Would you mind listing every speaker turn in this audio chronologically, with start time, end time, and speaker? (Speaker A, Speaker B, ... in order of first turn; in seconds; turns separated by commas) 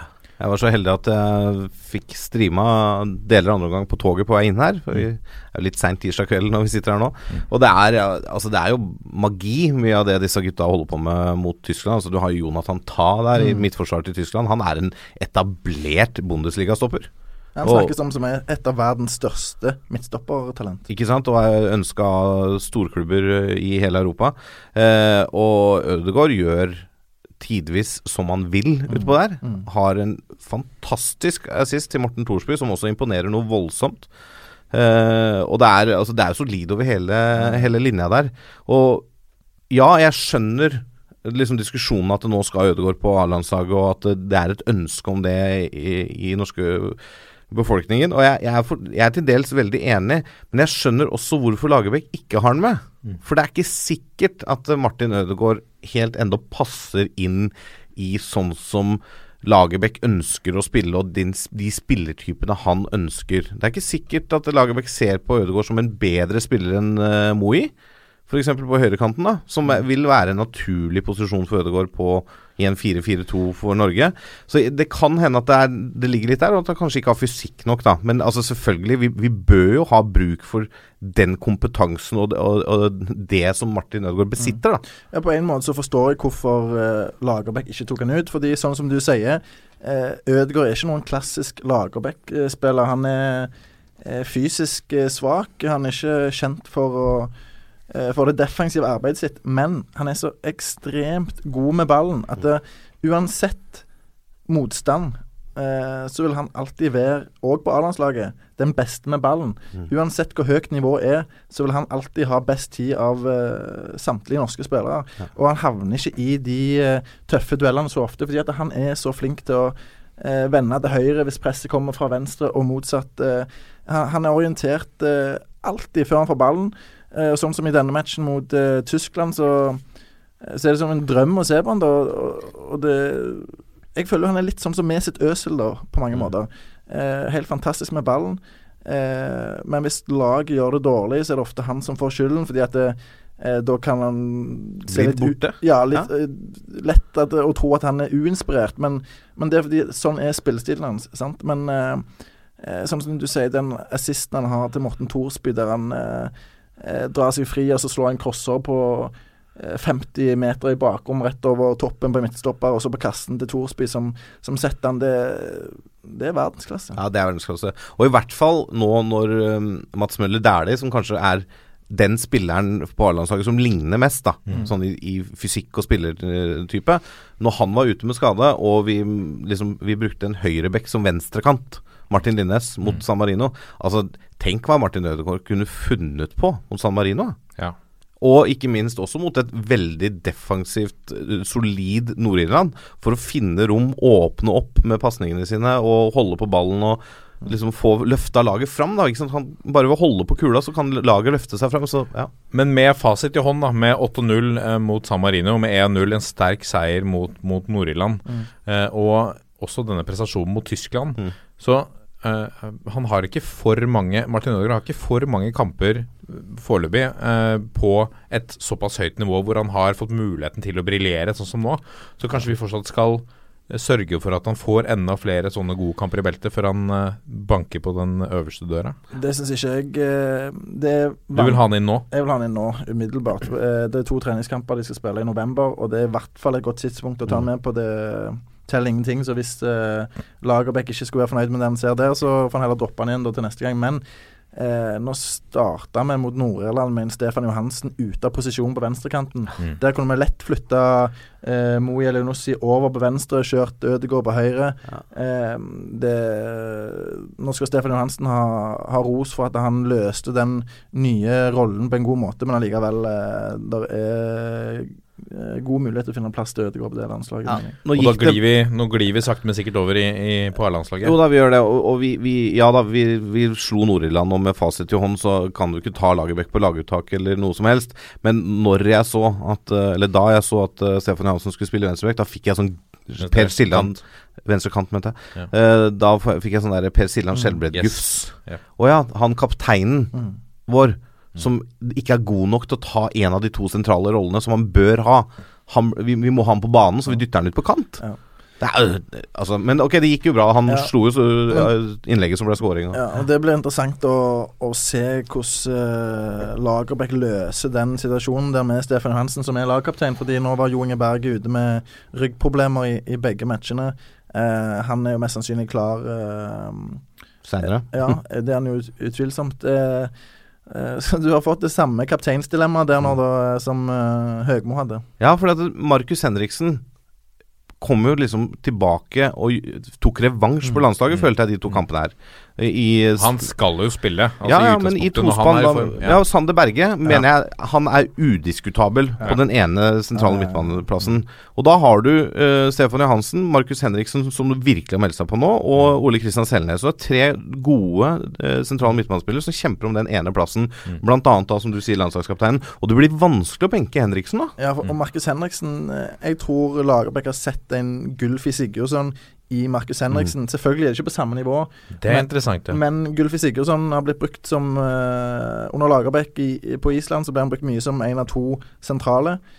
Speaker A: 0.4-17.1, Speaker B: 13.4-13.6, Speaker B: 17.6-20.9, Speaker A: 17.6-17.9, Speaker A: 20.9-34.1, Speaker B: 28.9-29.7, Speaker A: 34.7-39.1, Speaker B: 37.4-37.6, Speaker A: 39.7-67.7, Speaker A: 68.3-84.8, Speaker B: 84.4-93.5, Speaker B: 94.0-97.3, Speaker B: 97.9-103.9, Speaker B: 104.5-129.8, Speaker B: 130.4-152.1, Speaker A: 144.9-146.1, Speaker B: 152.6-167.0, Speaker A: 167.0-187.4, Speaker A: 188.2-202.3, Speaker C: 202.5-229.0, Speaker B: 229.1-244.0, Speaker C: 231.4-232.1, Speaker B: 244.5-267.8, Speaker A: 267.5-268.4, Speaker C: 267.9-271.2, Speaker A: 271.0-290.1, Speaker C: 283.2-283.9, Speaker C: 287.7-288.6, Speaker A: 290.7-298.0, Speaker A: 298.6-303.0, Speaker B: 300.7-300.9, Speaker B: 302.9-317.0, Speaker A: 317.4-317.9, Speaker B: 317.6-320.1, Speaker B: 320.7-325.1, Speaker A: 325.2-326.8, Speaker A: 327.8-333.5, Speaker C: 333.2-336.2, Speaker A: 334.4-354.6, Speaker B: 340.2-340.8, Speaker B: 354.6-369.4, Speaker C: 362.0-362.8